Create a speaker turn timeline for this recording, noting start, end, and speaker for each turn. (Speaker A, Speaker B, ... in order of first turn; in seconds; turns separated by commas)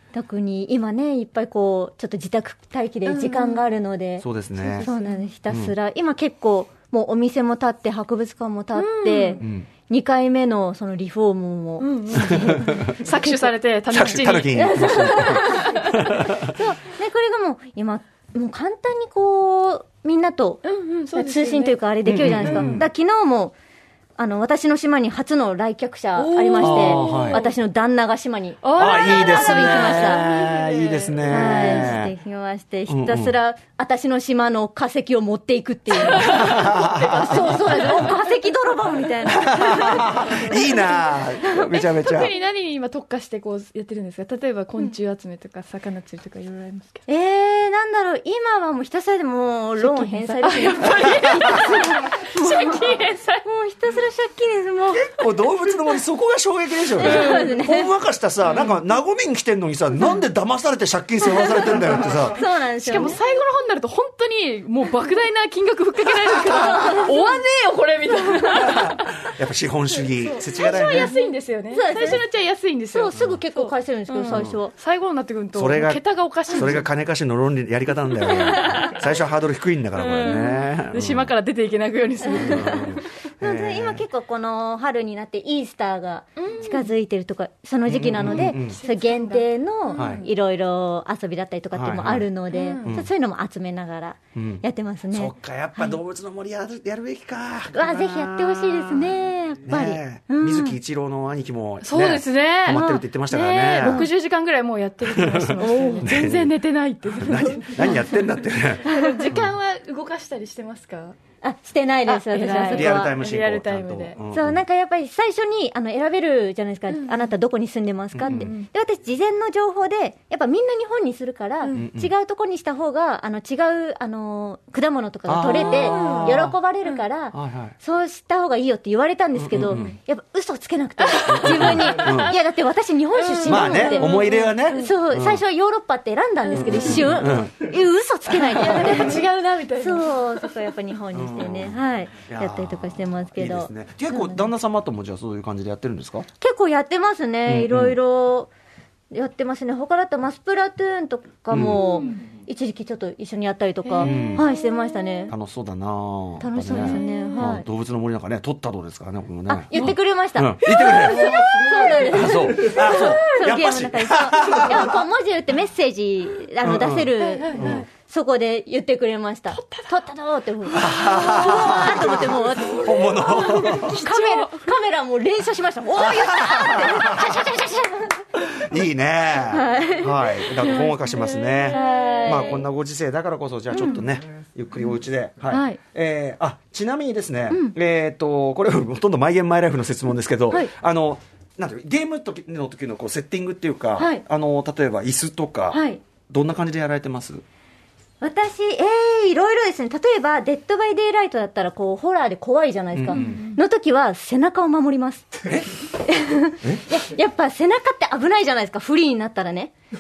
Speaker A: 0.1-4.3, Speaker B: 3.0-3.7, Speaker C: 4.2-4.9, Speaker B: 4.6-5.2, Speaker A: 4.8-13.4, Speaker C: 5.5-5.7, Speaker B: 8.8-9.4, Speaker C: 9.4-9.7, Speaker B: 11.8-15.8, Speaker C: 12.5-12.9, Speaker C: 13.9-16.5, Speaker A: 14.6-20.6, Speaker B: 20.6-21.8, Speaker A: 21.1-23.6, Speaker C: 22.1-22.9, Speaker B: 22.4-22.9, Speaker A: 24.2-30.3, Speaker B: 26.1-27.5, Speaker C: 26.6-27.4, Speaker B: 28.6-31.9, Speaker C: 28.8-32.1, Speaker A: 31.3-40.7, Speaker C: 32.9-33.4, Speaker B: 35.9-38.1, Speaker C: 36.2-37.8, Speaker C: 39.3-42.3, Speaker B: 40.2-40.6, Speaker B: 41.6-47.0, Speaker A: 47.1-55.2, Speaker B: 49.8-53.5, Speaker C: 54.9-62.4, Speaker A: 57.0-57.9, Speaker B: 57.0-57.5, Speaker A: 62.2-63.2, Speaker B: 62.8-69.2, Speaker A: 66.7-67.0, Speaker C: 69.3-71.1, Speaker B: 70.1-76.9, Speaker A: 70.6-72.2, Speaker A: 72.9-74.7, Speaker C: 73.1-73.4, Speaker C: 74.3-74.6, Speaker C: 75.5-81.3, Speaker B: 78.3-79.0, Speaker A: 78.3-78.7, Speaker B: 80.0-83.1, Speaker C: 82.3-84.0, Speaker A: 83.4-96.0, Speaker B: 86.4-86.9, Speaker C: 87.9-88.8, Speaker B: 88.4-90.3, Speaker C: 90.0-90.2, Speaker C: 91.7-92.3, Speaker B: 92.5-93.0, Speaker C: 92.8-93.1, Speaker C: 94.3-104.1, Speaker A: 97.7-100.8, Speaker B: 101.8-108.1, Speaker A: 102.7-103.0, Speaker A: 103.8-104.1, Speaker C: 105.0-106.5, Speaker A: 105.6-106.1, Speaker C: 107.2-109.5, Speaker B: 108.8-111.2, Speaker A: 109.0-109.2, Speaker A: 111.4-113.2, Speaker B: 112.1-114.2, Speaker C: 112.7-114.6, Speaker A: 114.3-139.2, Speaker B: 116.9-117.2, Speaker C: 118.1-118.5, Speaker B: 118.3-118.7, Speaker C: 121.7-122.1, Speaker C: 125.3-126.6, Speaker B: 125.6-127.0, Speaker C: 127.3-127.8, Speaker C: 129.3-130.0, Speaker B: 131.0-132.4, Speaker C: 131.3-132.3, Speaker B: 133.2-134.9, Speaker C: 133.5-135.4, Speaker B: 136.5-137.3, Speaker C: 136.5-137.6, Speaker B: 138.5-140.1, Speaker A: 139.8-144.5, Speaker C: 141.1-146.3, Speaker A: 146.4-148.5, Speaker C: 147.5-148.0, Speaker A: 149.1-155.3, Speaker C: 151.5-151.8, Speaker B: 151.7-152.2, Speaker B: 153.8-154.8, Speaker C: 154.0-154.5, Speaker C: 155.3-165.0, Speaker A: 156.4-157.7, Speaker B: 156.6-157.5, Speaker A: 159.5-178.2, Speaker B: 160.7-162.1, Speaker B: 162.7-163.2, Speaker C: 166.6-167.9, Speaker B: 167.2-167.9, Speaker B: 169.5-170.1, Speaker C: 170.7-174.0, Speaker B: 171.4-171.8, Speaker B: 173.2-174.6, Speaker C: 176.0-177.3, Speaker C: 178.4-197.4, Speaker A: 179.5-180.9, Speaker B: 181.1-182.3, Speaker A: 181.7-182.7, Speaker B: 183.7-184.0, Speaker B: 185.5-185.8, Speaker A: 194.0-194.2, Speaker A: 195.7-196.0, Speaker A: 198.2-205.3, Speaker C: 202.9-203.4, Speaker B: 203.1-203.6, Speaker A: 206.0-209.7